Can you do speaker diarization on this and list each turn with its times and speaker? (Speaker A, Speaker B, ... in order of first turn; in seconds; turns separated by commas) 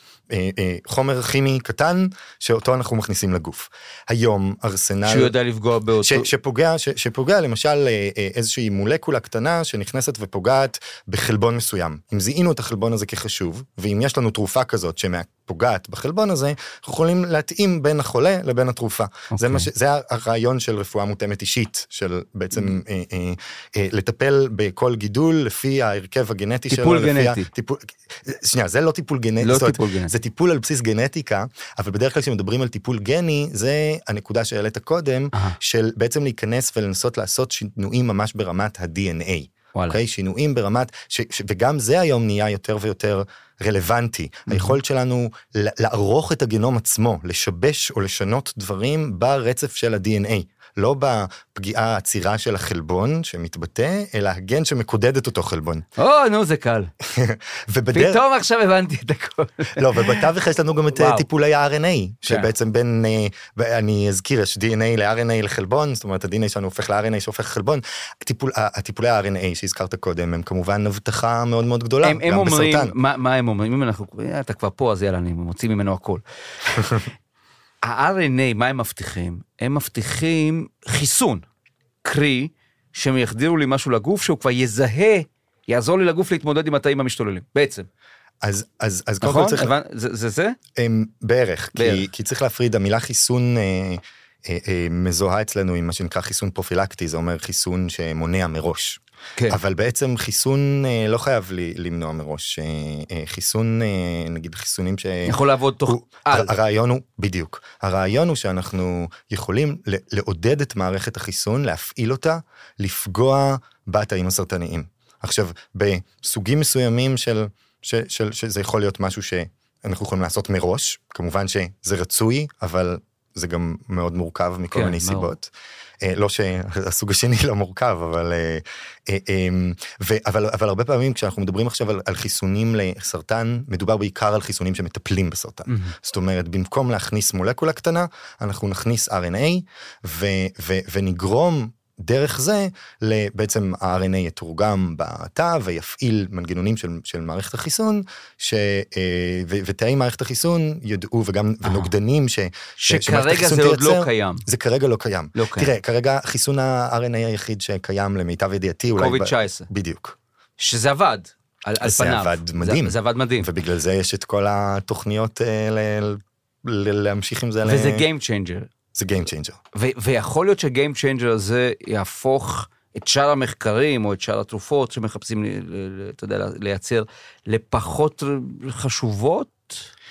Speaker A: 0.3-5.3, Speaker B: 5.0-6.3, Speaker A: 6.0-55.9, Speaker B: 19.3-19.6, Speaker B: 26.7-27.5, Speaker B: 29.4-30.1, Speaker B: 44.5-44.8, Speaker B: 56.0-56.9, Speaker A: 57.0-58.2, Speaker B: 57.9-60.2, Speaker A: 59.7-72.9, Speaker B: 60.9-61.2, Speaker B: 72.0-77.0, Speaker B: 77.8-81.5, Speaker B: 82.0-87.9, Speaker A: 88.4-89.7, Speaker B: 89.2-90.6, Speaker A: 90.8-160.2, Speaker B: 91.8-92.0, Speaker B: 105.2-106.5, Speaker B: 124.7-125.3, Speaker B: 135.7-135.9, Speaker B: 151.6-151.9, Speaker B: 152.8-154.4, Speaker B: 155.3-155.7, Speaker B: 158.9-159.7, Speaker B: 160.6-163.5, Speaker A: 161.8-168.1, Speaker B: 167.6-168.7, Speaker A: 168.9-169.6, Speaker B: 169.7-179.8